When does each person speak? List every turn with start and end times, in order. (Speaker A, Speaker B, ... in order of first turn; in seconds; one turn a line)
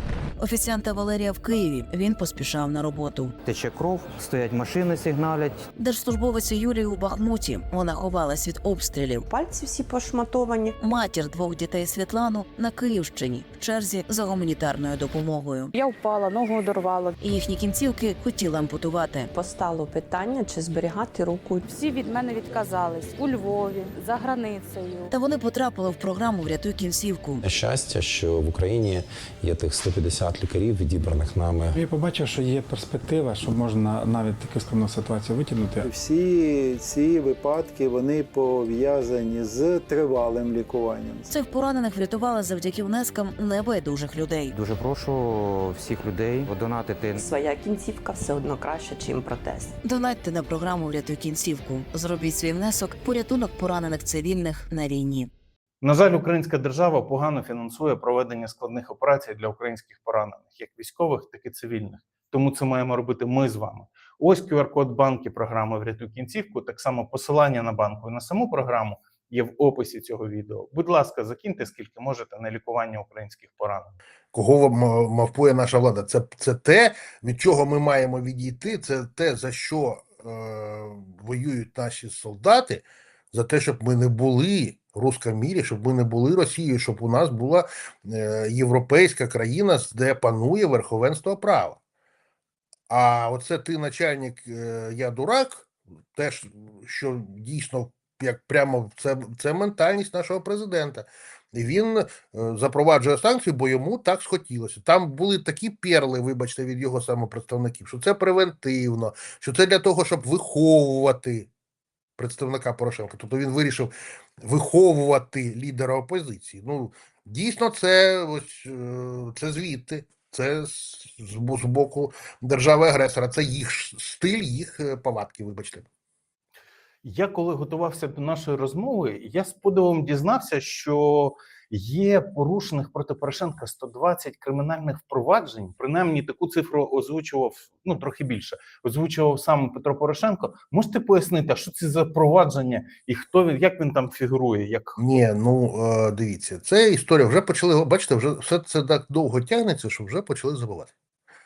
Speaker A: 0.4-3.3
Speaker B: 3.4-5.7
Speaker A: 5.8-9.2
Speaker C: 9.3-10.7
Speaker A: 10.8-15.7
Speaker D: 15.7-17.1
Speaker A: 17.2-19.3
Speaker C: 19.3-21.6
Speaker D: 21.7-25.1
Speaker A: 25.1-27.4
Speaker E: 27.4-31.8
Speaker F: 31.7-35.9
Speaker G: 35.8-41.3
Speaker A: 41.3-44.5
Speaker B: 44.5-47.2
Speaker C: 47.2-49.7
Speaker A: 49.8-55.3
Speaker H: 55.8-73.9
Speaker I: 74.3-91.8
Speaker I: 92.9-111.5
Speaker I: 112.2-125.8
Speaker H: 127.0-145.0
Speaker I: 145.0-150.9